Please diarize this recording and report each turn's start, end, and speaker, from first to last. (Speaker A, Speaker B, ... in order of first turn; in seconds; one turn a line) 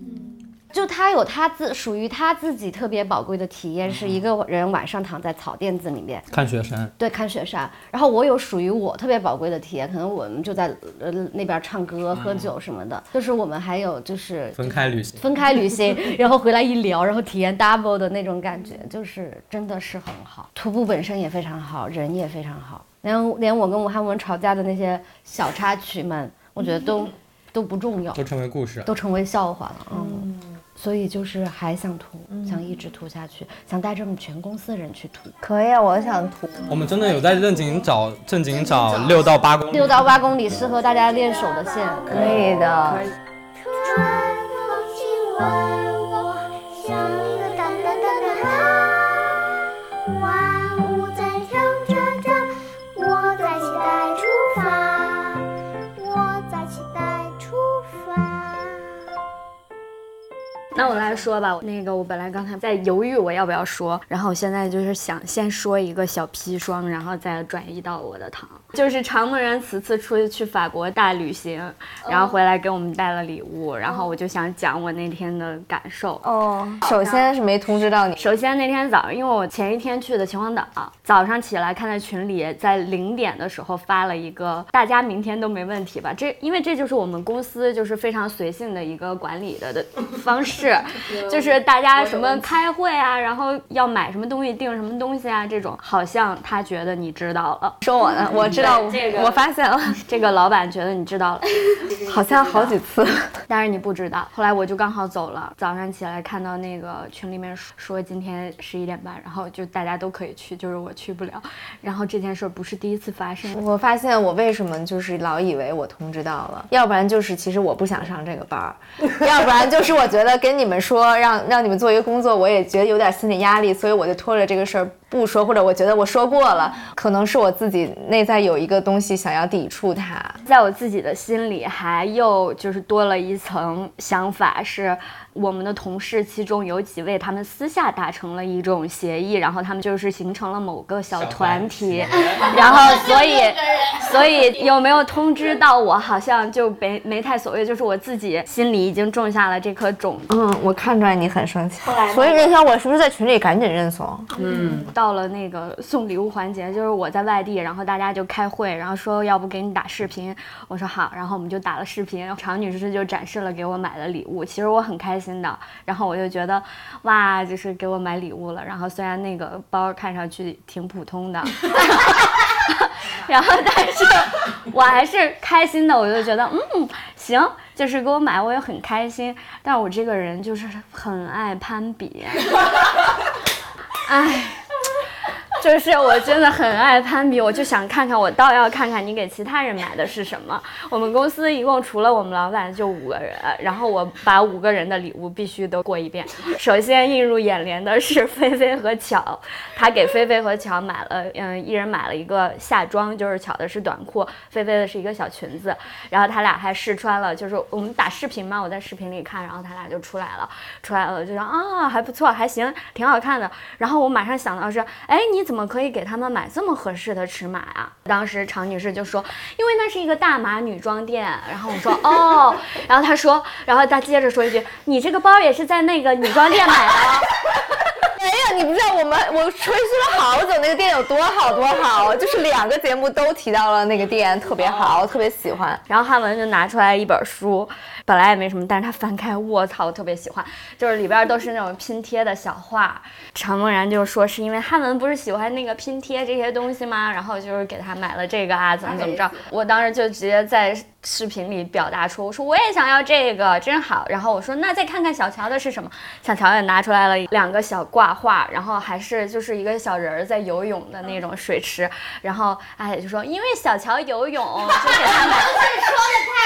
Speaker A: 0.7-6.3
Speaker B: 3.9-4.2
Speaker B: 6.3-6.9
Speaker A: 7.0-14.6
Speaker B: 12.1-12.5
Speaker B: 14.6-15.2
Speaker A: 15.2-28.2
Speaker B: 28.1-28.9
Speaker A: 28.9-35.3
Speaker C: 29.9-30.3
Speaker C: 35.4-36.7
Speaker B: 36.7-40.1
Speaker A: 39.7-43.1
Speaker D: 41.1-41.4
Speaker C: 42.1-43.0
Speaker D: 43.6-49.5
Speaker D: 50.2-55.5
Speaker D: 56.0-58.9
Speaker E: 60.7-76.2
Speaker C: 76.2-78.3
Speaker E: 76.8-77.3
Speaker E: 78.2-97.8
Speaker C: 97.8-100.0
Speaker E: 98.5-99.4
Speaker E: 100.1-102.8
Speaker C: 102.0-103.2
Speaker E: 103.5-113.6
Speaker C: 113.5-130.4
Speaker E: 130.4-150.3
Speaker B: 141.1-142.9
Speaker C: 150.3-154.3
Speaker E: 154.6-182.6
Speaker E: 183.9-184.6
Speaker E: 185.6-227.3
Speaker C: 228.1-235.8
Speaker E: 235.9-265.9